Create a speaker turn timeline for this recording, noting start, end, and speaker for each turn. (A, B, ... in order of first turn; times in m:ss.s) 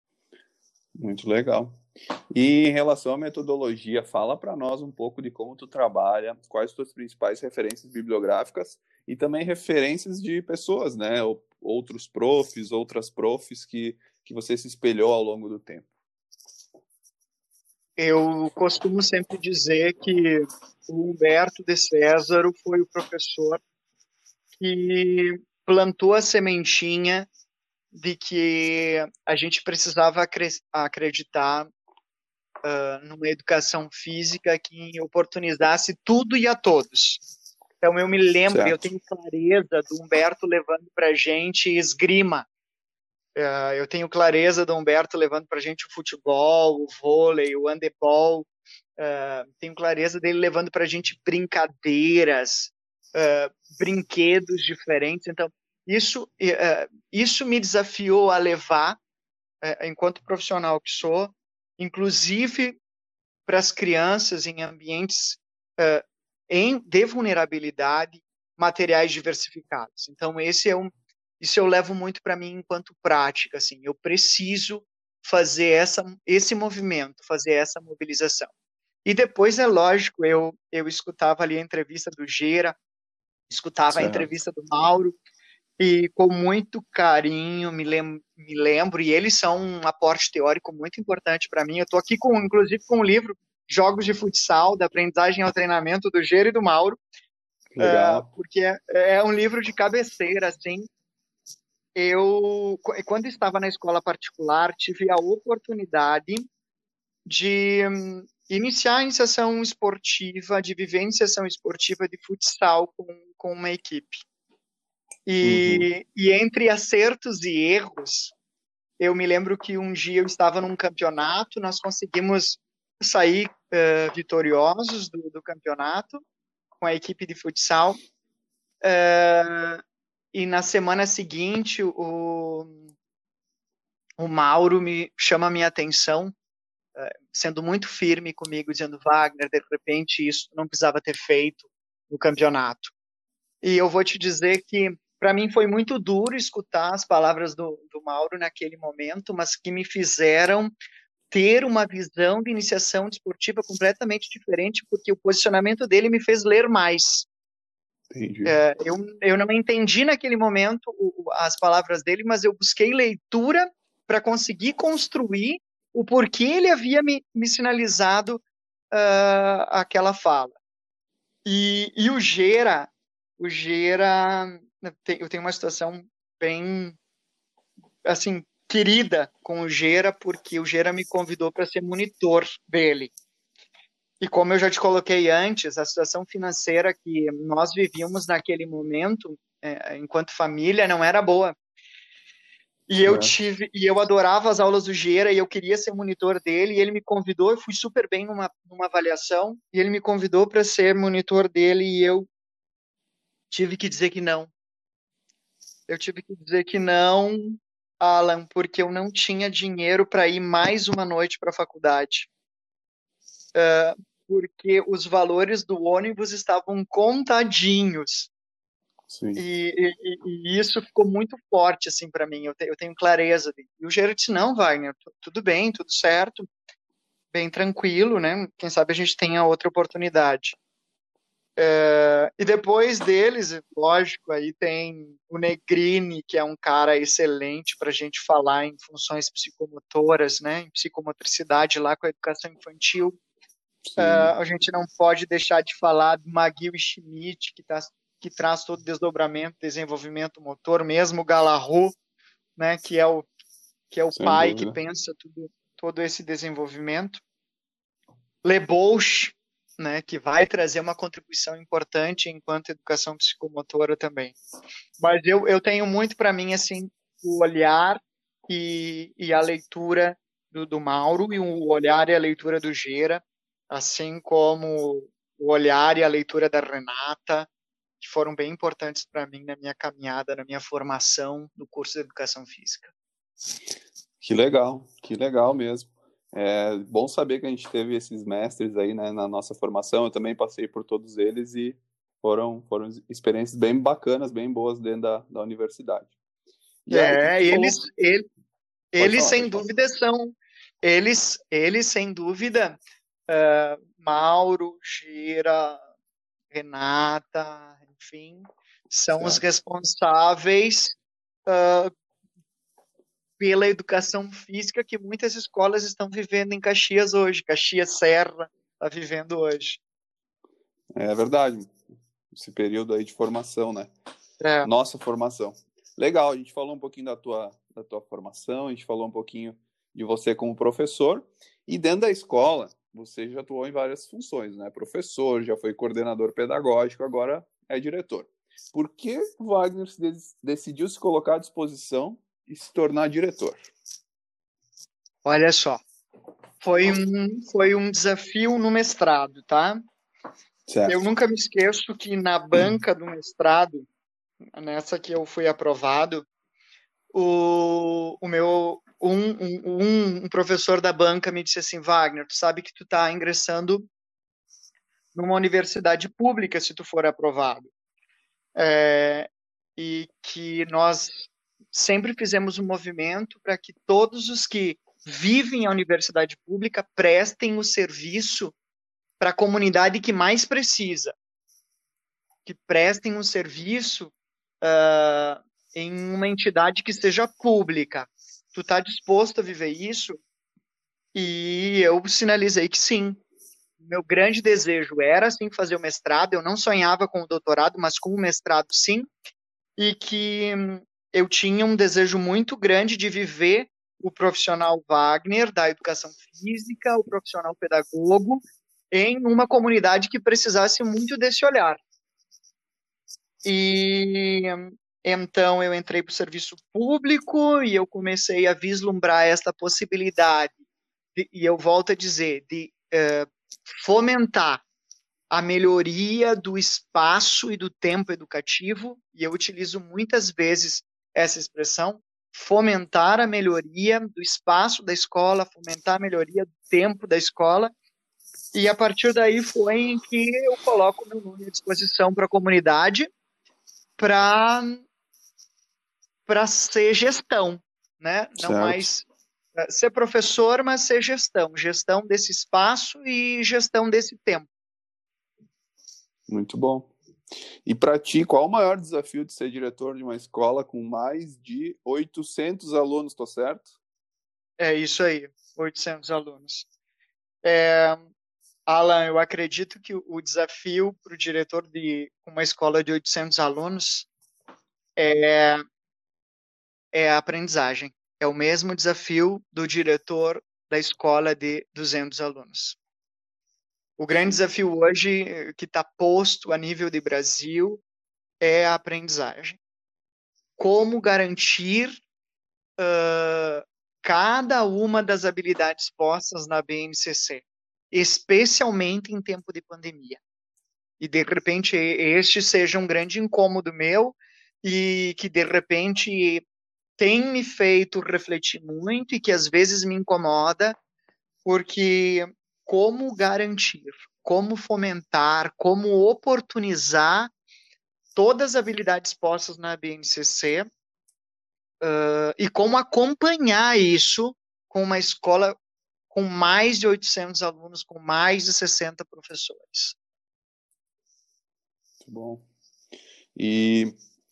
0:01.0-0:15.9 A
0:18.0-0:23.6 B
0:24.6-0:27.3 B
0:27.9-0:31.7 B
0:32.6-0:37.2 B
0:37.8-0:42.5 B
0:38.5-0:38.8 A
0:43.4-0:59.0 B
0:59.6-1:02.8 B
1:03.5-1:18.5 B
1:19.0-1:22.8 B
1:23.5-1:25.2 B
1:23.9-1:24.3 A
1:25.8-1:37.0 B
1:37.8-1:40.9 B
1:37.8-1:38.3 A
1:42.0-1:46.5 B
1:47.3-1:54.2 B
1:55.3-1:58.3 B
1:55.4-1:55.9 A
1:59.0-2:06.2 B
2:06.8-2:08.0 B
2:08.8-2:09.8 B
2:10.3-2:12.9 B
2:14.2-2:16.3 B
2:17.0-2:22.9 B
2:23.6-2:30.7 B
2:31.3-2:37.3 B
2:38.1-2:38.6 A
2:38.5-2:50.6 B
2:51.4-2:57.0 B
2:58.1-3:03.1 B
3:04.2-3:11.6 B
3:12.9-3:22.3 B
3:13.0-3:13.3 A
3:23.5-3:24.5 B
3:25.9-3:32.3 B
3:33.6-3:38.3 B
3:39.1-3:39.4 A
3:39.4-3:46.5 B
3:47.3-3:50.6 B
3:51.6-4:03.2 B
4:03.8-4:04.3 A
4:04.0-4:12.0 B
4:12.6-4:13.3 B
4:13.9-4:17.2 B
4:14.1-4:14.8 A
4:18.4-4:24.4 B
4:25.0-4:37.5 B
4:38.0-4:42.9 B
4:44.2-4:56.1 A
4:56.9-4:57.8 A
4:56.9-4:58.3 B
4:58.9-5:05.8 B
4:59.0-4:59.6 A
5:06.5-5:11.9 B
5:09.1-5:09.4 A
5:13.4-5:19.8 B
5:20.9-5:23.9 A
5:24.4-5:24.7 B
5:24.6-5:43.6 A
5:45.2-5:45.8 B
5:46.6-5:49.8 B
5:50.7-5:51.0 A
5:50.9-5:53.9 B
5:54.5-5:56.3 B
5:57.1-6:03.9 B
6:05.2-6:07.7 B
6:08.6-6:18.5 B
6:19.2-6:21.2 B
6:22.5-6:30.2 B
6:31.1-6:33.2 B
6:33.8-6:39.1 B
6:39.8-6:51.8 B
6:53.4-7:00.6 B
7:01.2-7:04.6 B
7:05.3-7:17.7 B
7:18.5-7:23.1 B
7:24.0-7:24.8 B
7:26.3-7:29.1 B
7:28.4-7:28.9 A
7:29.6-7:34.5 B
7:36.3-7:36.9 A
7:37.7-7:43.7 A
7:44.6-7:46.7 B
7:47.4-7:48.1 B
7:48.7-7:54.1 B
7:55.0-7:55.6 B
7:56.9-8:02.8 B
8:04.0-8:07.8 B
8:08.4-8:09.6 B
8:10.6-8:12.0 B
8:12.8-8:20.2 B
8:21.0-8:26.4 B
8:27.0-8:30.8 B
8:31.4-8:37.3 B
8:38.2-8:40.7 B
8:41.8-8:45.6 B
8:46.1-8:50.0 B
8:52.0-8:52.4 A
8:53.4-8:53.9 A